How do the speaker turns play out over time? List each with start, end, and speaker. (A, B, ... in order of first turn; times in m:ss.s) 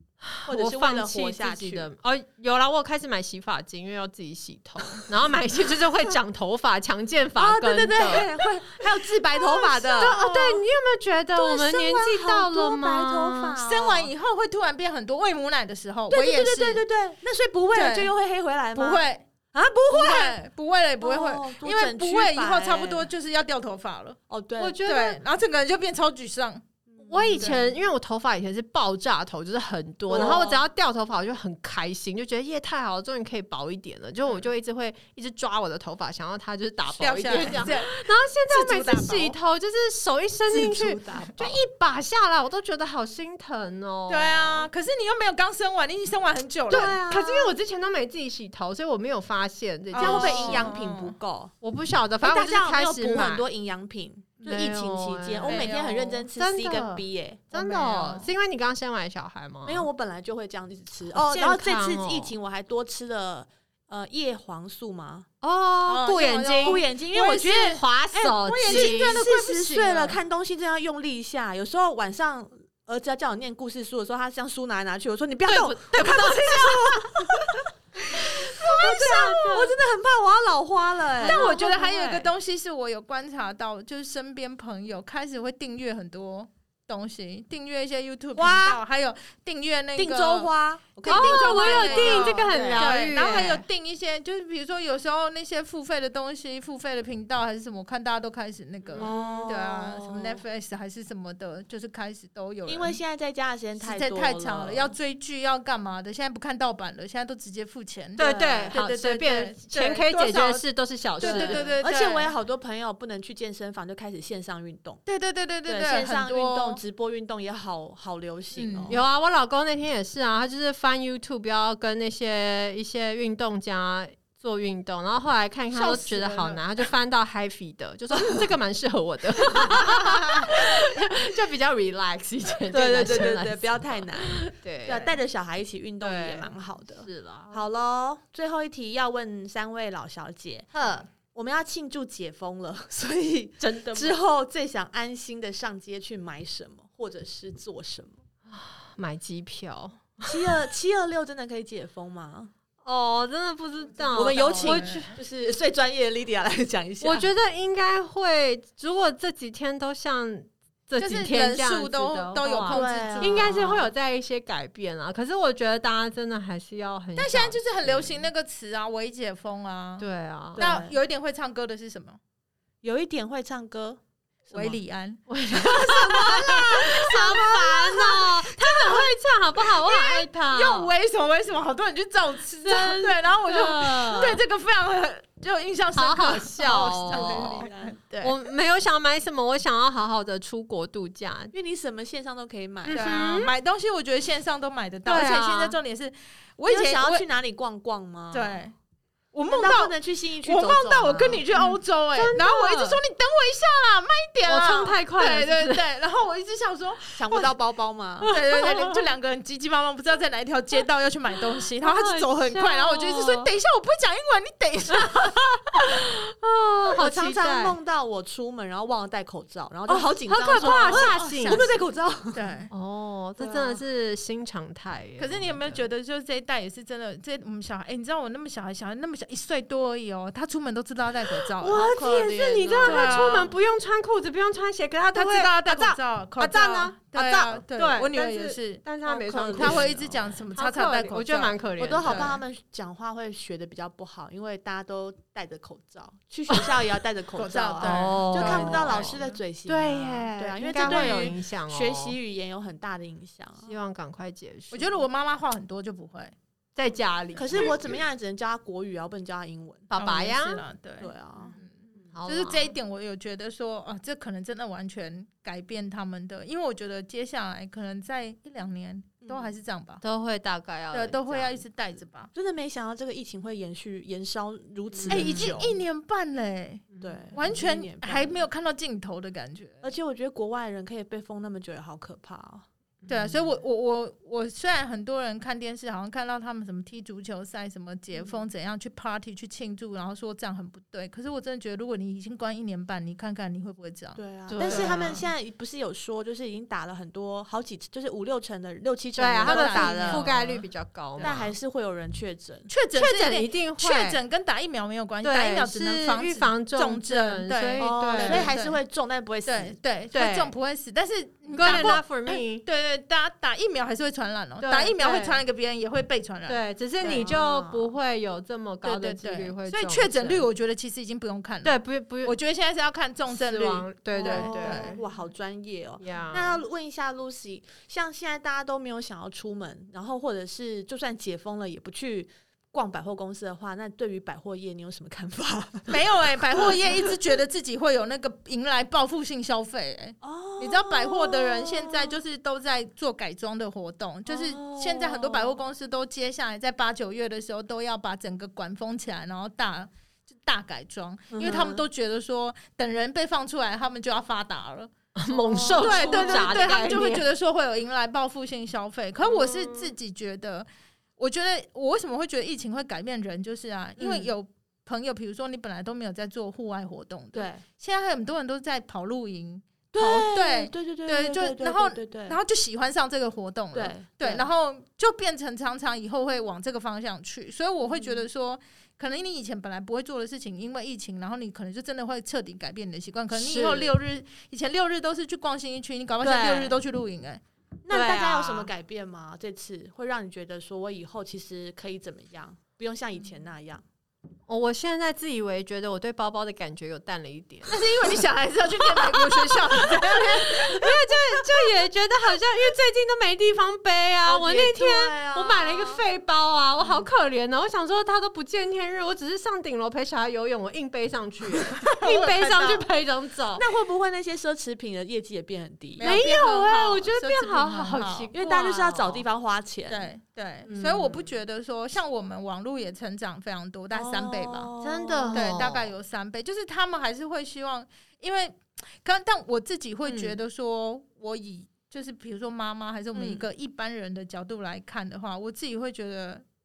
0:00.2-0:08.3 A
0:00.4-0:01.9 B
0:07.4-0:10.6 B
0:09.5-0:13.6 A
0:11.3-0:14.1 B
0:13.6-0:16.8 C
0:16.1-0:20.4 B
0:17.7-0:18.1 C
0:18.7-0:19.2 C
0:19.9-0:24.2 C
0:21.0-0:23.1 B
0:24.3-0:24.8 B
0:24.6-0:25.2 A
0:24.8-0:26.6 C
0:26.9-0:27.6 B
0:27.0-0:44.7 A
0:27.4-0:27.7 C
0:30.1-0:30.6 B
0:30.1-0:30.6 C
0:37.0-0:39.4 C
0:40.5-0:41.6 B
0:44.1-0:47.0 C
0:46.7-0:47.5 B
0:46.7-0:50.7 A
0:49.9-0:51.2 C
0:50.0-0:51.5 B
0:51.6-0:53.4 A
0:52.2-0:57.4 B
0:54.4-0:55.7 A
0:55.5-0:56.2 C
0:56.4-0:59.9 A
0:57.5-0:58.3 C
0:59.6-1:05.3 B
1:01.1-1:02.3 A
1:05.4-1:06.8 A
1:05.8-1:10.2 C
1:06.6-1:07.8 B
1:07.4-1:09.2 A
1:08.6-1:22.3 B
1:15.4-1:17.4 A
1:18.6-1:19.7 A
1:18.8-1:19.2 C
1:21.2-1:21.9 A
1:21.2-1:43.0 C
1:28.3-1:28.8 B
1:30.0-1:32.9 B
1:31.1-1:33.6 A
1:38.9-1:40.4 B
1:38.9-1:39.6 A
1:42.7-1:44.9 B
1:43.8-1:52.3 C
1:48.2-1:48.8 B
1:48.2-1:51.7 A
1:51.2-1:55.0 B
1:55.0-1:56.8 C
1:55.6-1:59.0 B
1:58.5-1:59.0 C
1:58.9-2:15.2 A
2:05.7-2:06.6 C
2:12.7-2:28.2 B
2:16.0-2:17.6 A
2:20.7-2:21.1 A
2:23.6-2:24.1 A
2:28.5-2:30.5 A
2:30.2-2:32.5 B
2:32.8-2:35.2 A
2:34.0-2:35.0 C
2:34.1-2:37.3 B
2:37.0-2:48.3 A
2:41.0-2:43.8 C
2:42.6-2:43.6 B
2:47.2-2:52.2 C
2:50.0-2:50.8 A
2:50.5-2:51.0 B
2:52.8-2:54.8 B
2:54.5-3:08.0 C
2:55.3-3:00.9 A
2:56.3-2:57.4 B
3:02.6-3:04.4 A
3:05.9-3:07.7 A
3:06.7-3:08.2 B
3:08.2-3:11.5 A
3:11.5-3:13.3 B
3:12.9-3:17.2 C
3:12.9-3:13.5 A
3:15.1-3:15.8 A
3:16.7-3:18.6 B
3:18.3-3:18.7 C
3:19.3-3:27.5 C
3:19.5-3:21.4 B
3:21.5-3:23.0 A
3:24.4-3:25.8 A
3:27.1-3:28.3 B
3:28.2-3:35.5 C
3:28.3-3:29.0 A
3:31.7-3:33.5 A
3:34.9-3:37.8 A
3:36.9-3:42.6 B
3:39.9-3:41.7 A
3:40.5-3:41.8 C
3:42.3-3:42.7 C
3:42.7-3:45.8 A
3:43.4-3:43.8 C
3:45.2-3:51.9 C
3:51.6-4:02.4 A
3:51.6-3:53.4 B
3:52.8-3:53.5 C
3:55.1-4:02.4 C
3:57.2-3:57.4 B
3:59.2-3:59.9 B
4:01.8-4:13.7 B
4:07.4-4:09.4 C
4:07.8-4:12.2 A
4:10.8-4:11.3 C
4:13.6-4:15.0 A
4:14.7-4:16.3 C
4:16.8-4:17.8 A
4:17.4-4:19.9 B
4:19.9-4:20.6 A
4:20.0-4:30.0 C
4:21.0-4:21.6 B
4:22.1-4:22.7 A
4:29.2-4:29.5 B
4:30.0-4:31.6 A
4:30.9-4:32.3 C
4:32.3-4:35.8 B
4:34.9-4:35.6 A
4:35.1-4:39.8 C
4:37.0-4:38.4 B
4:39.8-4:42.6 B
4:43.0-4:43.4 A
4:43.1-4:55.2 C
4:54.2-5:00.5 B
4:54.5-4:55.2 A
4:59.2-5:01.5 A
4:59.4-5:00.4 C
5:01.2-5:02.7 B
5:02.7-5:08.8 C
5:02.9-5:04.2 A
5:05.2-5:08.5 A
5:07.8-5:09.8 B
5:09.4-5:17.3 C
5:10.1-5:10.5 A
5:11.5-5:12.6 A
5:14.6-5:15.4 A
5:16.5-5:20.5 A
5:17.0-5:17.9 B
5:18.8-5:25.0 C
5:21.6-5:22.3 A
5:23.3-5:25.0 A
5:24.1-5:36.8 B
5:26.0-5:26.6 A
5:35.9-5:54.9 C
5:40.2-5:42.2 B
5:44.2-5:45.6 B
5:51.3-5:51.8 B
5:55.2-5:57.3 A
5:55.5-5:57.2 B
5:55.5-6:00.7 C
5:59.2-5:59.9 A
6:01.2-6:27.4 C
6:04.0-6:04.3 B
6:07.3-6:07.6 B
6:09.9-6:12.4 B
6:13.7-6:14.5 B
6:17.8-6:18.2 B
6:23.3-6:23.9 A
6:26.2-6:26.8 B
6:27.8-6:33.8 B
6:27.9-6:28.7 A
6:34.5-6:38.2 A
6:37.7-6:41.0 C
6:38.8-6:53.6 A
6:44.2-6:46.0 B
6:51.6-6:52.9 C
6:53.6-6:56.1 B
6:56.0-6:58.3 C
6:56.0-6:59.2 A
6:58.3-7:00.1 B
6:59.9-7:04.7 C
7:00.7-7:01.3 A
7:03.9-7:05.4 B
7:04.8-7:05.9 A
7:05.3-7:16.4 C
7:10.0-7:10.4 A
7:13.1-7:13.4 B